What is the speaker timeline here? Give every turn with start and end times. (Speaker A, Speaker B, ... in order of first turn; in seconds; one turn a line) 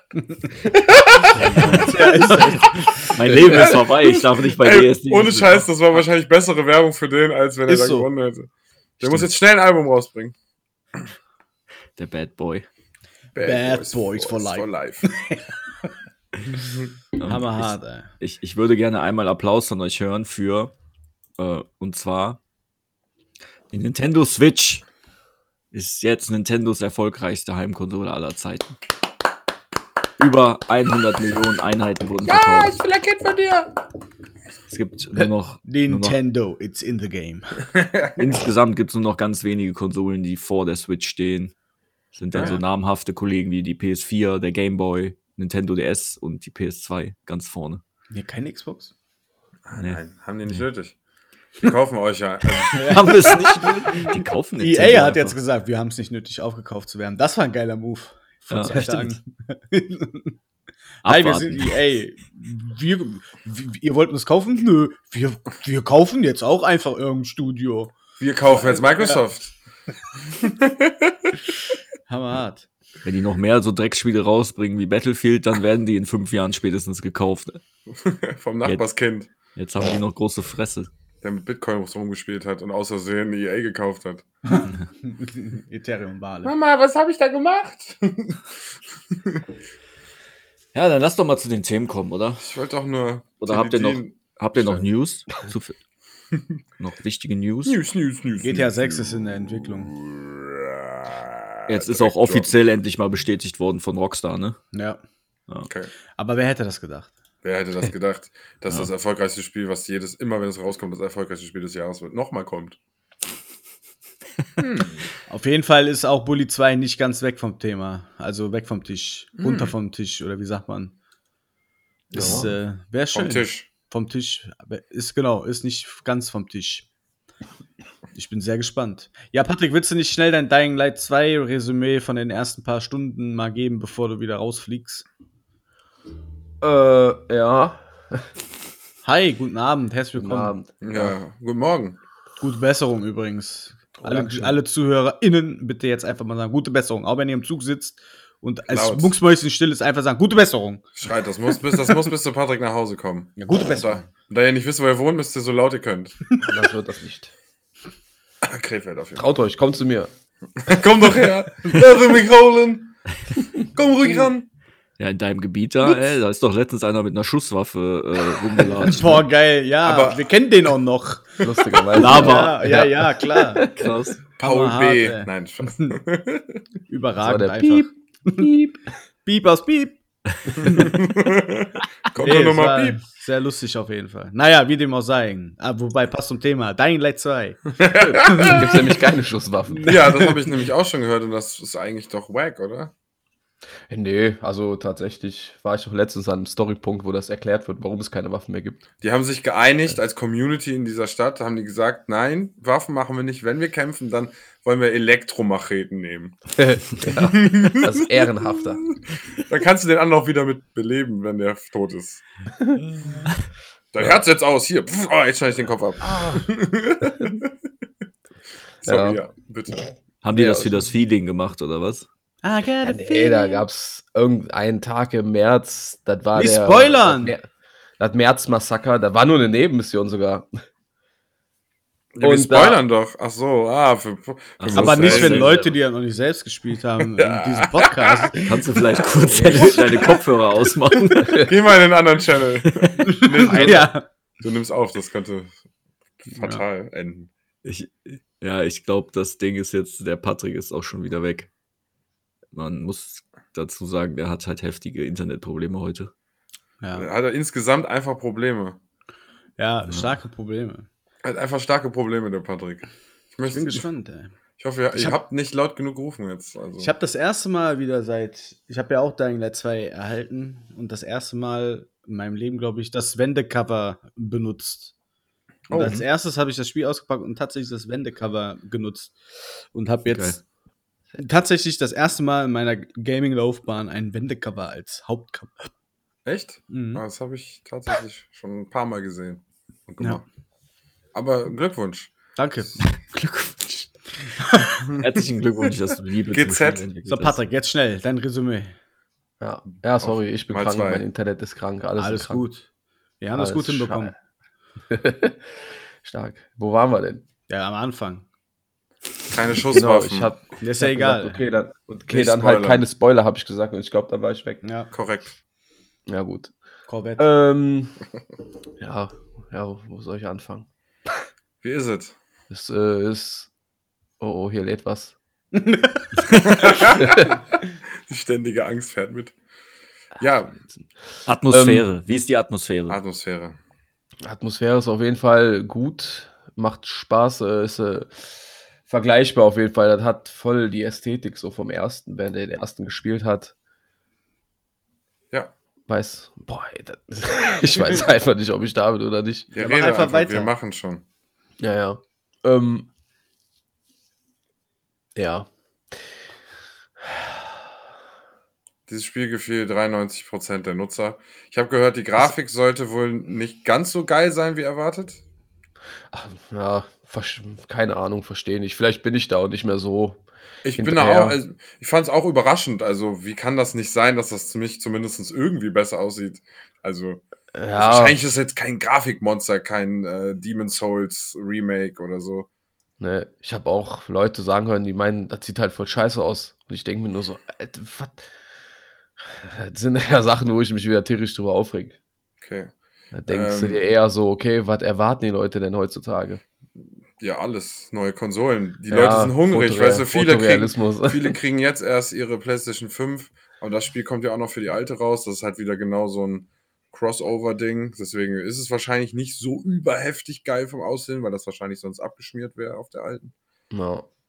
Speaker A: 0.5-1.8
Speaker B: 1.4-5.7
Speaker C: 1.4-3.1
Speaker A: 3.3-10.3
Speaker C: 7.7-8.1
Speaker B: 9.0-9.3
Speaker B: 11.9-12.7
Speaker A: 13.3-15.2
Speaker C: 13.4-15.9
Speaker A: 16.6-16.9
Speaker B: 17.2-20.7
Speaker C: 17.2-18.1
Speaker B: 21.4-22.4
Speaker B: 23.7-24.8
Speaker B: 25.7-28.8
Speaker B: 30.2-32.8
Speaker A: 32.2-33.8
Speaker B: 34.7-36.2
Speaker C: 35.6-37.7
Speaker A: 37.7-38.1
Speaker B: 38.1-41.5
Speaker B: 42.1-47.8
Speaker A: 42.3-42.6
Speaker C: 42.3-42.6
Speaker C: 48.1-48.9
Speaker A: 49.6-51.0
Speaker A: 51.6-53.0
Speaker C: 52.7-60.4
Speaker B: 52.8-55.4
Speaker B: 58.5-59.2
Speaker B: 61.0-61.8
Speaker C: 61.0-67.9
Speaker A: 68.2-69.5
Speaker C: 68.5-69.2
Speaker A: 70.3-71.4
Speaker C: 72.1-72.7
Speaker B: 73.0-77.6
Speaker A: 77.9-79.3
Speaker B: 79.5-80.9
Speaker A: 81.2-84.2
Speaker C: 84.5-86.5
Speaker A: 86.4-88.5
Speaker A: 89.1-89.4
Speaker B: 90.7-92.4
Speaker A: 92.4-94.8
Speaker B: 93.4-95.8
Speaker B: 96.8-97.8
Speaker A: 97.6-102.5
Speaker C: 98.4-99.9
Speaker B: 101.7-104.6
Speaker C: 104.7-105.0
Speaker A: 105.7-105.9
Speaker C: 106.2-107.1
Speaker A: 107.4-112.8
Speaker A: 114.6-115.1
Speaker C: 115.3-120.9
Speaker A: 119.4-119.7
Speaker C: 122.1-126.9
Speaker A: 122.1-122.5
Speaker D: 122.1-122.5
Speaker A: 123.1-123.7
Speaker C: 128.1-135.1
Speaker D: 136.6-138.2
Speaker C: 139.0-140.5
Speaker D: 140.2-141.2
Speaker A: 140.8-142.0
Speaker C: 142.4-150.9
Speaker D: 144.0-144.5
Speaker A: 148.7-149.1
Speaker A: 151.0-156.2
Speaker C: 153.4-154.1
Speaker D: 156.4-157.3
Speaker A: 158.4-159.2
Speaker D: 159.2-160.1
Speaker A: 160.6-163.0
Speaker A: 163.6-164.5
Speaker B: 165.0-169.2
Speaker C: 168.8-173.7
Speaker A: 169.8-170.2
Speaker D: 171.4-173.9
Speaker B: 172.0-172.7
Speaker B: 173.7-174.2
Speaker A: 174.4-176.6
Speaker C: 174.4-175.9
Speaker C: 176.9-178.5
Speaker D: 177.2-178.8
Speaker C: 179.2-180.0
Speaker C: 180.6-180.9
Speaker A: 180.6-183.0
Speaker C: 182.2-187.6
Speaker A: 187.8-188.8
Speaker C: 188.1-188.6
Speaker D: 188.1-190.0
Speaker C: 189.7-190.5
Speaker A: 189.8-192.9
Speaker D: 193.9-198.8
Speaker A: 199.0-206.4
Speaker D: 206.5-208.9
Speaker A: 207.0-212.2
Speaker A: 213.9-217.5
Speaker D: 216.0-216.4
Speaker D: 218.8-219.2
Speaker A: 218.8-219.8
Speaker B: 220.2-222.1
Speaker D: 220.3-220.9
Speaker C: 222.4-223.7
Speaker D: 222.8-227.5
Speaker C: 226.3-227.3
Speaker D: 228.0-230.5
Speaker A: 232.1-235.6
Speaker D: 232.2-232.8
Speaker B: 234.6-235.7
Speaker C: 234.7-239.9
Speaker A: 237.2-238.3
Speaker B: 238.4-241.5
Speaker D: 239.3-239.8
Speaker A: 241.3-245.6
Speaker B: 242.7-243.8
Speaker C: 243.1-244.0
Speaker A: 246.2-247.3
Speaker C: 246.3-246.6
Speaker B: 247.6-251.5
Speaker B: 252.5-256.1
Speaker C: 256.8-257.1
Speaker A: 256.9-258.8
Speaker C: 259.6-260.9
Speaker B: 259.9-260.1
Speaker A: 261.2-263.9
Speaker C: 263.5-264.3
Speaker A: 264.6-266.9
Speaker C: 264.9-265.2
Speaker C: 266.8-274.9
Speaker C: 275.7-279.1
Speaker B: 275.7-276.0
Speaker C: 279.7-280.4
Speaker B: 280.1-280.4
Speaker C: 281.2-285.7
Speaker A: 286.2-290.2
Speaker C: 286.7-287.0
Speaker A: 291.1-292.1
Speaker C: 292.4-292.8
Speaker B: 292.8-293.9
Speaker C: 294.4-294.7
Speaker B: 295.0-297.4
Speaker A: 296.3-296.8
Speaker C: 297.1-298.7
Speaker D: 299.4-302.5
Speaker A: 300.0-301.0
Speaker C: 302.0-302.6
Speaker C: 303.2-304.1
Speaker D: 303.3-304.1
Speaker D: 304.9-307.2
Speaker C: 307.5-308.2
Speaker A: 309.3-310.3
Speaker D: 309.7-314.6
Speaker C: 310.6-311.4
Speaker A: 312.1-312.8
Speaker C: 314.6-314.9
Speaker A: 314.9-315.4
Speaker D: 316.1-316.5
Speaker C: 316.9-317.3
Speaker D: 317.2-318.0
Speaker D: 318.8-320.7
Speaker A: 321.6-322.1
Speaker D: 322.5-323.5
Speaker D: 324.2-325.1
Speaker C: 325.5-326.1
Speaker A: 326.3-327.3
Speaker D: 326.9-327.3
Speaker A: 328.1-329.3
Speaker A: 330.2-330.6
Speaker B: 331.2-333.0
Speaker D: 331.5-331.9
Speaker A: 332.9-333.6
Speaker D: 334.2-338.3
Speaker D: 338.9-343.5
Speaker D: 345.9-349.5
Speaker A: 349.5-351.0
Speaker C: 349.5-350.5
Speaker D: 351.6-352.9
Speaker D: 355.1-355.5
Speaker D: 357.0-357.6
Speaker A: 358.9-365.2
Speaker D: 366.1-370.2
Speaker A: 370.6-377.2
Speaker D: 370.8-371.4
Speaker D: 377.5-378.1
Speaker A: 377.8-382.5
Speaker D: 383.0-388.3
Speaker D: 389.2-392.0
Speaker A: 392.4-392.7
Speaker D: 393.1-396.4
Speaker A: 393.3-393.8
Speaker A: 397.2-413.3
Speaker D: 398.9-401.4
Speaker D: 413.7-414.1